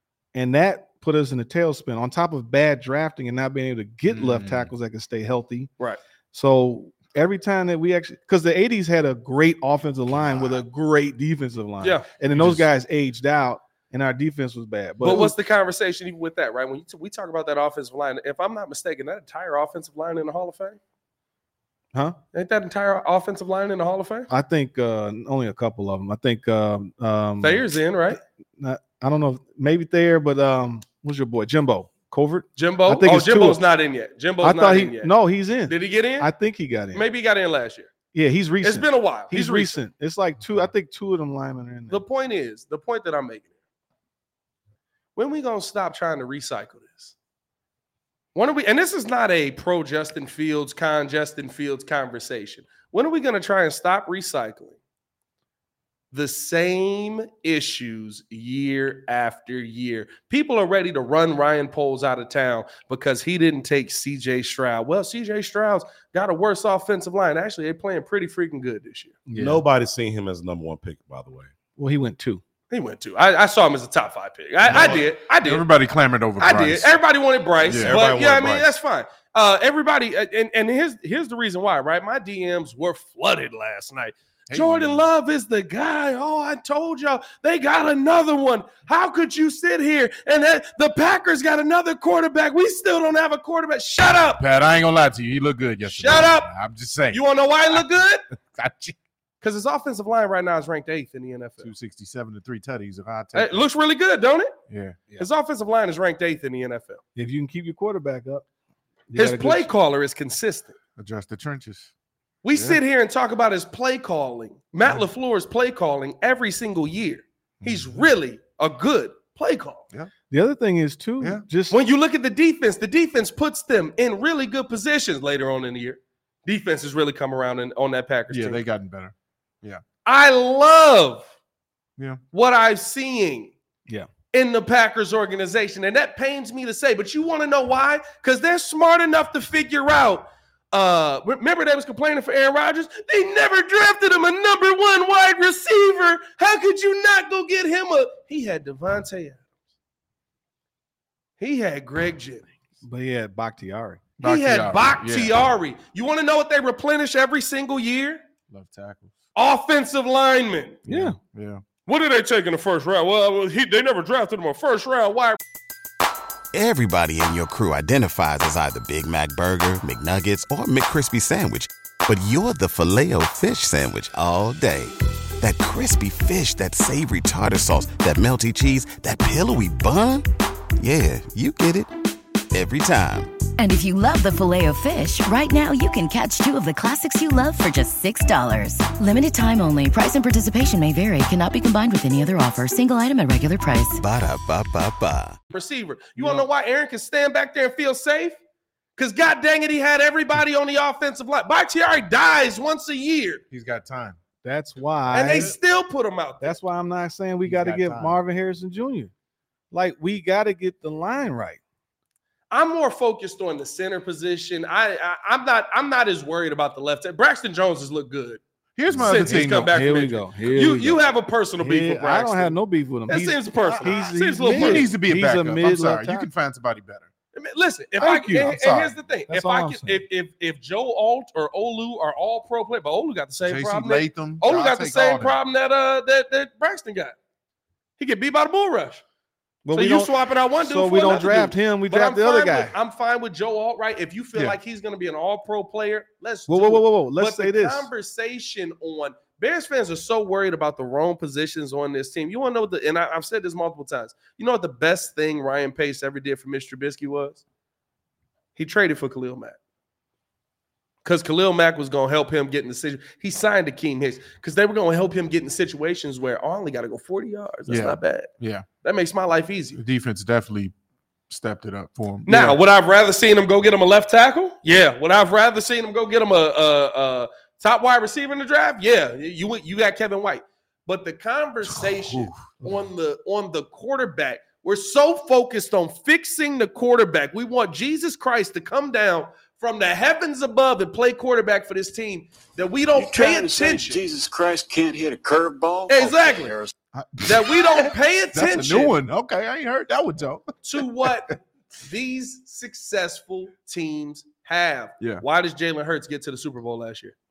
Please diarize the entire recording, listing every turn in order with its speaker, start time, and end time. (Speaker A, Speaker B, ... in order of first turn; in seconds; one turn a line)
Speaker A: 0.3-5.7
Speaker B: 4.1-4.7
Speaker A: 6.3-15.3
Speaker C: 11.8-12.1
Speaker B: 12.3-12.7
Speaker C: 15.0-20.8
Speaker C: 22.3-24.3
Speaker A: 24.3-33.6
Speaker C: 27.4-28.2
Speaker C: 32.6-35.1
Speaker A: 34.4-37.1
Speaker C: 35.7-36.3
Speaker C: 36.9-37.9
Speaker A: 38.1-42.0
Speaker C: 38.6-39.8
Speaker C: 41.9-43.5
Speaker C: 45.2-47.1
Speaker C: 48.4-54.8
Speaker C: 56.1-69.2
Speaker A: 69.3-69.6
Speaker D: 69.3-71.5
Speaker A: 71.8-72.4
Speaker C: 72.7-75.7
Speaker B: 74.7-76.9
Speaker C: 76.4-94.4
Speaker B: 77.7-78.0
Speaker D: 77.7-78.7
Speaker B: 84.5-85.0
Speaker B: 94.4-97.2
Speaker C: 95.9-96.5
Speaker C: 97.1-98.2
Speaker B: 98.5-99.0
Speaker C: 99.4-101.7
Speaker B: 101.6-103.7
Speaker C: 103.3-104.5
Speaker B: 104.7-105.0
Speaker C: 105.2-107.0
Speaker A: 107.2-108.5
Speaker A: 109.1-109.7
Speaker C: 109.2-110.8
Speaker B: 111.0-111.9
Speaker C: 112.4-119.8
Speaker B: 117.6-118.1
Speaker A: 120.3-121.8
Speaker C: 121.7-128.6
Speaker B: 128.3-129.8
Speaker C: 130.1-131.3
Speaker C: 132.3-133.5
Speaker C: 134.3-149.4
Speaker C: 151.4-152.5
Speaker A: 152.8-154.0
Speaker B: 154.2-155.4
Speaker C: 154.2-158.2
Speaker B: 158.5-159.2
Speaker C: 159.3-160.8
Speaker A: 160.9-161.2
Speaker B: 160.9-161.6
Speaker C: 161.9-165.4
Speaker E: 166.5-180.2
Speaker E: 180.8-181.9
Speaker E: 182.5-183.3
Speaker F: 183.6-194.0
Speaker E: 194.0-195.4
Speaker C: 195.5-198.4
Speaker A: 196.2-196.5
Speaker C: 199.0-203.4
Speaker B: 203.5-204.2
Speaker A: 204.4-205.6
Speaker C: 205.1-206.6
Speaker A: 206.4-209.1
Speaker B: 207.4-208.2
Speaker A: 209.7-211.6
Speaker C: 212.5-218.4
Speaker B: 218.8-219.7
Speaker A: 218.9-221.0
Speaker C: 219.0-222.6
Speaker A: 221.6-226.3
Speaker C: 223.1-224.9
Speaker B: 224.4-227.1
Speaker C: 227.3-237.2
Speaker A: 228.0-228.6
Speaker B: 228.3-228.9
Speaker A: 229.3-230.0
Speaker B: 233.4-235.4
Speaker C: 238.0-239.0
Speaker A: 239.7-242.8
Speaker C: 239.7-257.4
Speaker A: 246.5-247.9
Speaker C: 258.6-259.6
Speaker C: 261.1-268.3
Speaker B: 267.7-268.6
Speaker C: 268.8-269.8
Speaker B: 269.8-270.7
Speaker B: 271.3-272.6
Speaker C: 272.3-294.0
Speaker B: 281.8-282.4
Speaker G: 292.9-296.7
Speaker C: 295.9-296.6
Speaker B: 296.9-300.8
Speaker C: 297.2-298.9
Speaker C: 300.6-307.1